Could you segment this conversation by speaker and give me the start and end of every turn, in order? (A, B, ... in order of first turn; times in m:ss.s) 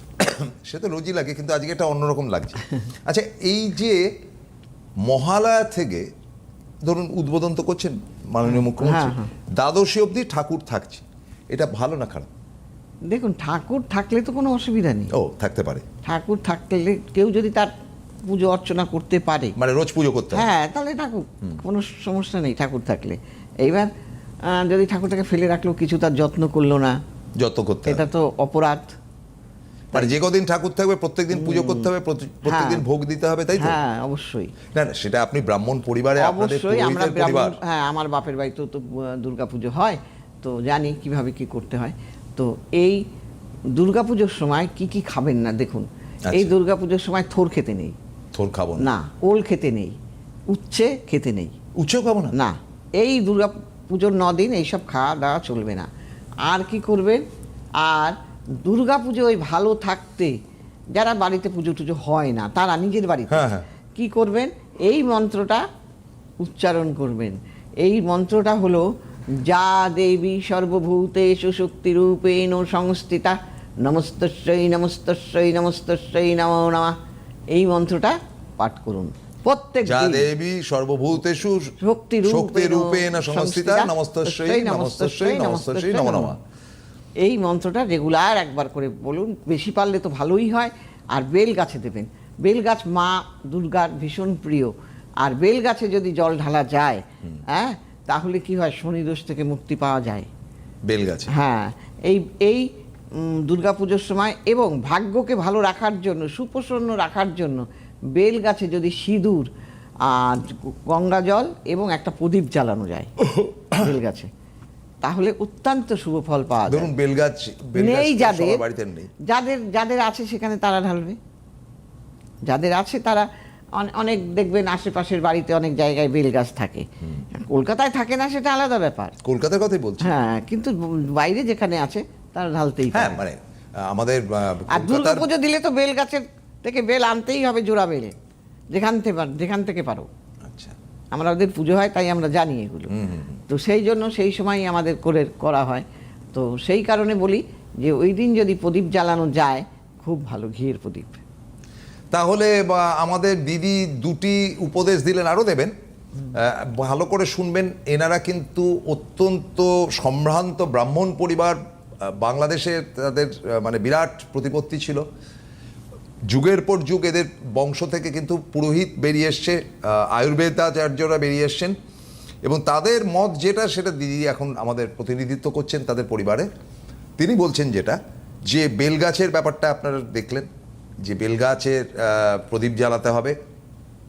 0:00.2-0:04.1 A
0:05.0-0:06.1 A
0:06.8-0:12.3 A
0:08.5-0:09.3 B
0:13.1-0:15.1 B
0:15.1-0:15.8 A
0:16.0-0:17.7 B
0:18.2-0:19.6 B
0:19.6-0:20.5 A
0:20.3-0:23.9 B
0:24.5-0:27.0 B
0:27.4-0:28.0 A
0:27.9-0:28.9 B
0:29.9-0:33.8 A
0:31.3-0:31.9 B
0:32.4-0:32.8 B
0:33.6-0:34.5 B
0:34.7-0:37.6 A
0:36.2-0:43.0 B
0:43.7-0:48.0 B
0:46.3-0:46.5 A
0:48.3-0:48.9 A
0:48.8-0:50.0 B
0:50.5-0:51.5 B
0:51.8-0:52.4 A
0:52.3-0:55.9 B
0:56.4-0:57.2 B
0:57.8-1:00.4 B
1:00.9-1:05.6 B
1:03.3-1:03.6 A
1:06.4-1:08.8 B
1:09.4-1:17.0 B
1:17.5-1:20.3 B
1:19.8-1:26.4 A
1:21.8-1:26.3 B
1:27.2-1:40.3 B
1:40.9-1:41.3 A
1:41.3-1:49.5 B
1:50.0-1:53.1 B
1:53.7-1:54.3 B
1:55.0-1:56.9 B
1:56.7-1:59.1 A
1:57.7-1:58.6 B
1:59.2-2:01.2 B
2:02.5-2:09.1 B
2:09.2-2:10.1 A
2:10.0-2:13.2 B
2:12.9-2:15.3 A
2:14.7-2:18.1 B
2:18.7-2:20.1 B
2:20.4-2:20.8 A
2:21.1-2:22.9 B
2:22.9-2:23.4 A
2:23.5-2:31.2 B
2:32.1-2:35.7 A
2:36.3-2:45.0 A
2:46.3-2:51.8 A
2:52.4-2:56.5 A
2:57.2-3:00.5 A
3:01.0-3:03.4 A